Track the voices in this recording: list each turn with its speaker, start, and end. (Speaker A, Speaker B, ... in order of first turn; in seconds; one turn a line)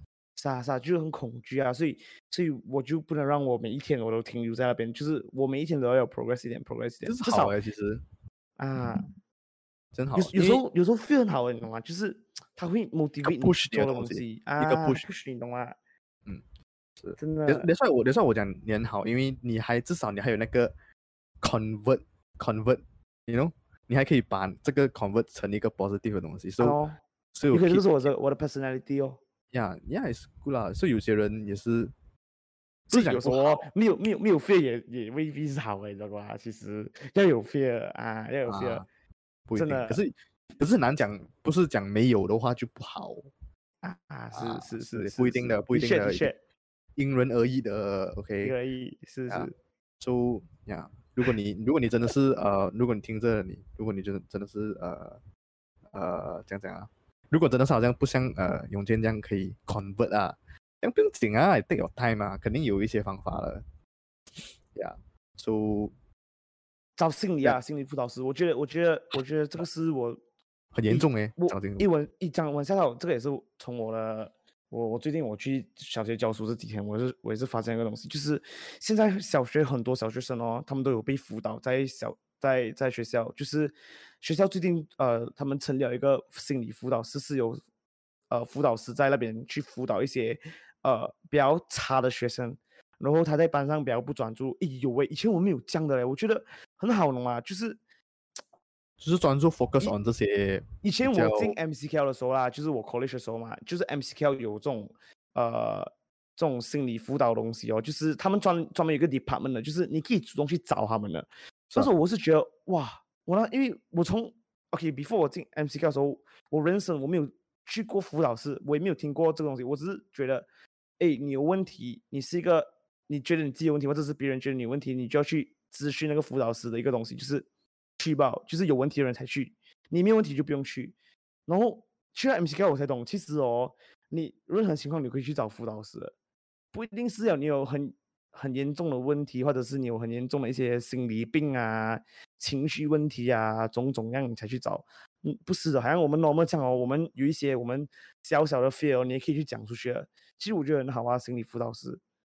Speaker A: 0.3-7.5
Speaker B: 7.0-8.0
Speaker A: 8.6-9.1
Speaker B: 9.9-10.6
Speaker A: 10.1-15.8
Speaker B: 13.2-15.1
Speaker B: 17.0-20.7
Speaker A: 17.2-17.7
Speaker B: 21.4-26.8
Speaker A: 26.6-27.0
Speaker B: 27.3-28.1
Speaker A: 27.5-29.2
Speaker B: 29.5-31.9
Speaker B: 32.9-33.6
Speaker A: 32.9-38.8
Speaker B: 38.5-38.9
Speaker B: 39.5-43.3
Speaker A: 39.5-40.0
Speaker A: 43.8-46.4
Speaker B: 44.3-46.3
Speaker B: 47.0-48.5
Speaker A: 48.4-49.5
Speaker B: 49.3-55.2
Speaker B: 55.9-63.6
Speaker B: 64.4-65.9
Speaker A: 67.0-70.2
Speaker B: 70.7-71.9
Speaker A: 70.9-87.6
Speaker A: 88.3-97.8
Speaker B: 99.0-101.5
Speaker A: 100.8-120.5
Speaker A: 121.0-127.5
Speaker A: 128.0-130.9
Speaker A: 131.5-136.1
Speaker A: 136.7-152.0